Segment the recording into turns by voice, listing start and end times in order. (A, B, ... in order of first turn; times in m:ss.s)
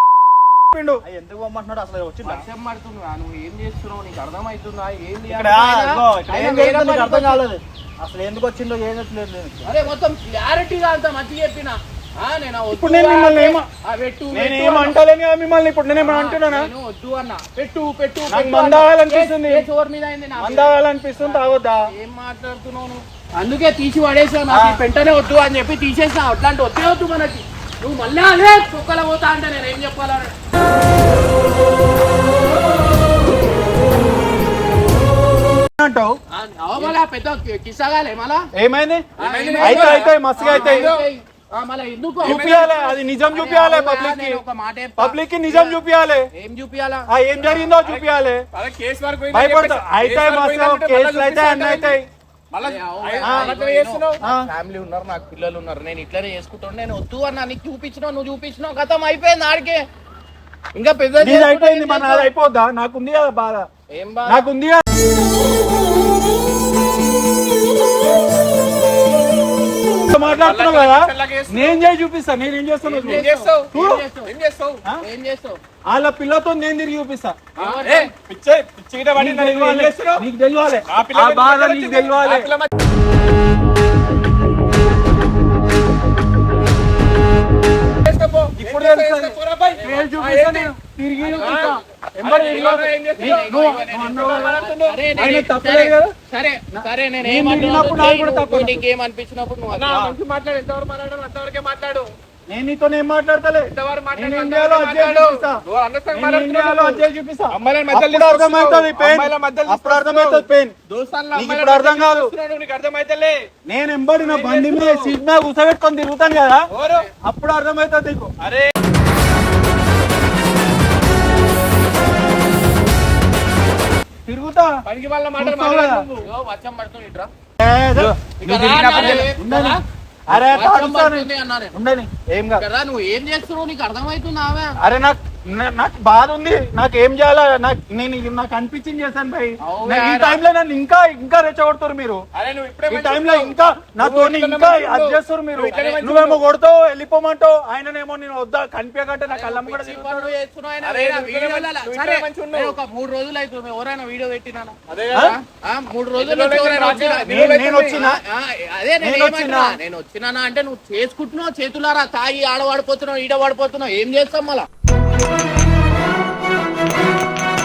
0:00.7-0:01.0 A
0:01.0-0:02.4 B
0:02.2-0:07.4 C
0:05.3-0:09.5 B
0:05.3-0:05.8 A
0:09.6-0:15.0 C
0:12.7-0:13.6 A
0:14.3-0:16.7 A
0:15.9-0:30.3 C
0:18.3-0:19.6 A
0:20.4-0:21.8 A
0:24.5-0:24.8 A
0:35.8-0:36.2 A
0:36.3-0:38.5 C
0:38.6-0:39.1 A
0:39.2-0:42.7 C
0:39.2-0:41.0 D
0:39.6-0:40.9 A
0:42.2-0:42.8 D
0:42.2-0:44.4 A
0:43.3-0:45.8 C
0:45.0-0:46.2 A
0:46.3-0:47.7 C
0:47.1-0:48.4 A
0:47.8-0:52.0 D
0:49.3-0:52.0 A
0:52.5-0:54.2 D
0:52.6-0:59.8 C
0:53.2-0:53.5 A
1:00.7-1:02.3 C
1:01.2-1:03.7 A
1:03.9-1:04.4 C
1:04.2-1:04.8 A
1:09.9-1:14.0 A
1:10.2-1:11.8 D
1:12.8-1:14.3 C
1:13.0-1:13.7 D
1:14.2-1:14.8 D
1:15.0-1:15.6 C
1:15.9-1:17.4 A
1:17.6-1:18.1 C
1:17.6-1:20.2 D
1:19.2-1:22.5 A
1:20.9-1:22.7 D
1:28.0-1:30.7 D
1:28.6-1:34.6 A
1:31.2-1:31.8 C
1:31.3-1:36.1 D
1:33.2-1:39.9 C
1:35.2-1:35.9 A
1:36.7-1:38.8 A
1:39.7-1:42.1 D
1:39.9-1:40.2 A
1:42.5-1:45.6 A
1:43.7-1:53.4 D
1:46.1-1:50.7 A
1:51.3-1:52.3 A
1:53.6-1:56.6 A
1:54.2-1:55.2 D
1:56.7-1:57.1 D
1:57.2-1:58.3 A
1:58.4-1:58.7 D
2:04.2-2:04.7 A
2:04.9-2:06.2 D
2:05.4-2:06.0 A
2:06.2-2:07.3 C
2:07.6-2:08.1 A
2:08.0-2:09.2 B
2:08.4-2:09.8 C
2:08.8-2:12.6 A
2:08.9-2:09.1 D
2:10.3-2:11.7 C
2:12.6-2:14.8 C
2:14.8-2:22.2 A
2:19.6-2:20.4 C
2:22.4-2:26.4 D
2:22.9-2:30.3 A
2:25.7-2:26.0 C
2:29.3-2:44.7 C
2:30.8-2:32.8 D
2:34.9-2:35.3 D
2:36.2-2:38.0 D
2:37.3-2:38.2 A
2:39.0-2:39.8 A